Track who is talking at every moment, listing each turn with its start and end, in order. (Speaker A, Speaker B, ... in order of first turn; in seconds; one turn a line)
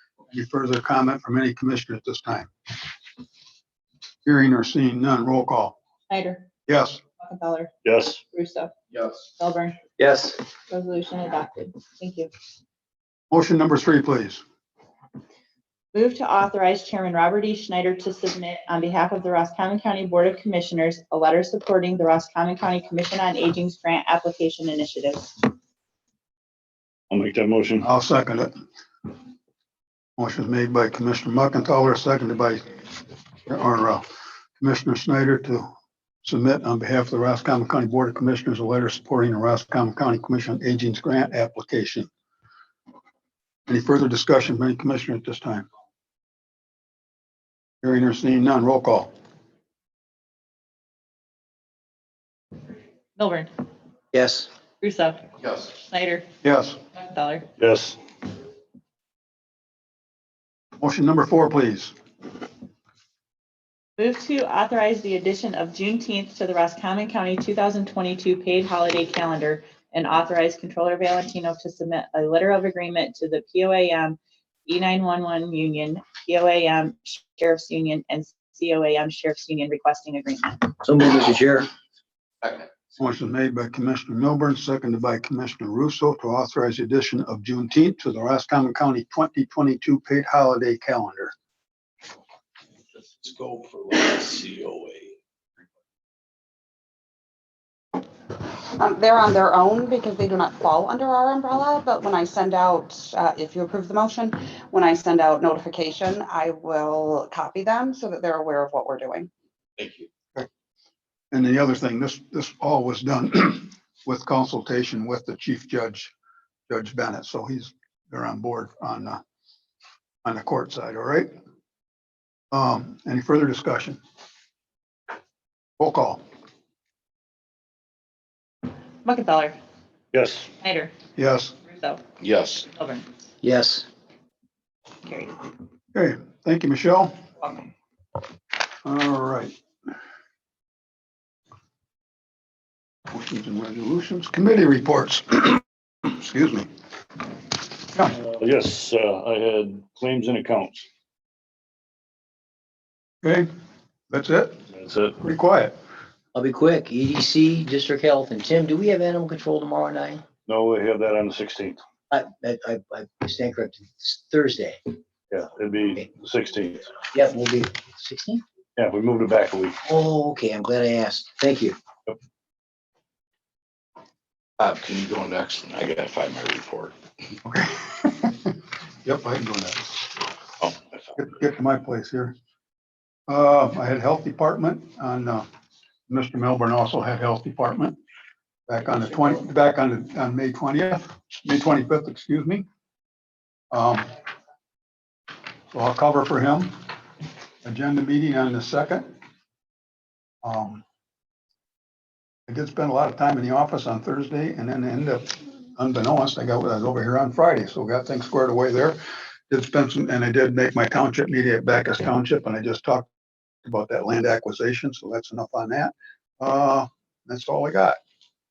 Speaker A: 0.3-2.5
Speaker A: 4.2-5.8
Speaker B: 6.1-6.5
Speaker A: 6.7-7.0
Speaker B: 7.2-7.7
Speaker C: 7.8-8.2
Speaker B: 8.2-9.8
Speaker D: 10.0-10.4
Speaker B: 10.7-12.3
Speaker A: 13.3-14.4
Speaker B: 15.9-25.4
Speaker C: 27.1-27.8
Speaker A: 27.8-28.5
Speaker A: 30.2-32.6
Speaker A: 33.5-34.0
Speaker A: 34.6-35.7
Speaker A: 36.2-42.1
Speaker A: 43.7-45.7
Speaker A: 47.8-49.1
Speaker B: 53.2-53.5
Speaker D: 54.1-54.5
Speaker B: 54.8-56.2
Speaker A: 56.4-56.8
Speaker B: 56.9-57.5
Speaker C: 57.6-58.0
Speaker A: 60.8-61.9
Speaker B: 64.0-80.7
Speaker D: 80.8-81.7
Speaker A: 83.0-91.3
Speaker E: 98.7-109.3
Speaker A: 111.3-116.1
Speaker A: 116.7-119.2
Speaker A: 120.2-121.3
Speaker A: 122.5-124.0
Speaker A: 125.8-126.2
Speaker B: 129.0-129.6
Speaker C: 130.1-130.5
Speaker B: 130.6-130.9
Speaker A: 131.2-131.5
Speaker B: 131.6-132.0
Speaker F: 132.2-132.7
Speaker B: 132.7-133.1
Speaker D: 133.4-133.9
Speaker B: 135.0-135.4
Speaker A: 135.9-137.1
Speaker A: 138.8-139.5
Speaker A: 143.1-145.6
Speaker A: 146.1-146.7
Speaker C: 148.1-150.9
Speaker A: 153.2-153.5
Speaker A: 154.1-154.6
Speaker C: 154.7-155.2
Speaker A: 155.2-155.7
Speaker D: 156.3-160.2
Speaker C: 160.4-161.8
Speaker D: 162.1-164.8
Speaker C: 165.3-166.9
Speaker D: 167.1-168.4
Speaker C: 168.8-169.8
Speaker D: 169.8-171.8
Speaker F: 174.6-176.9
Speaker A: 177.4-180.0
Speaker A: 181.2-182.3
Speaker A: 183.3-185.4
Speaker A: 186.1-187.9
Speaker A: 188.7-192.6
Speaker A: 193.7-194.1
Speaker A: 195.7-196.8
Speaker A: 197.6-199.1
Speaker A: 200.4-200.8
Speaker A: 202.5-209.0
Speaker A: 209.5-213.1
Speaker A: 213.6-218.0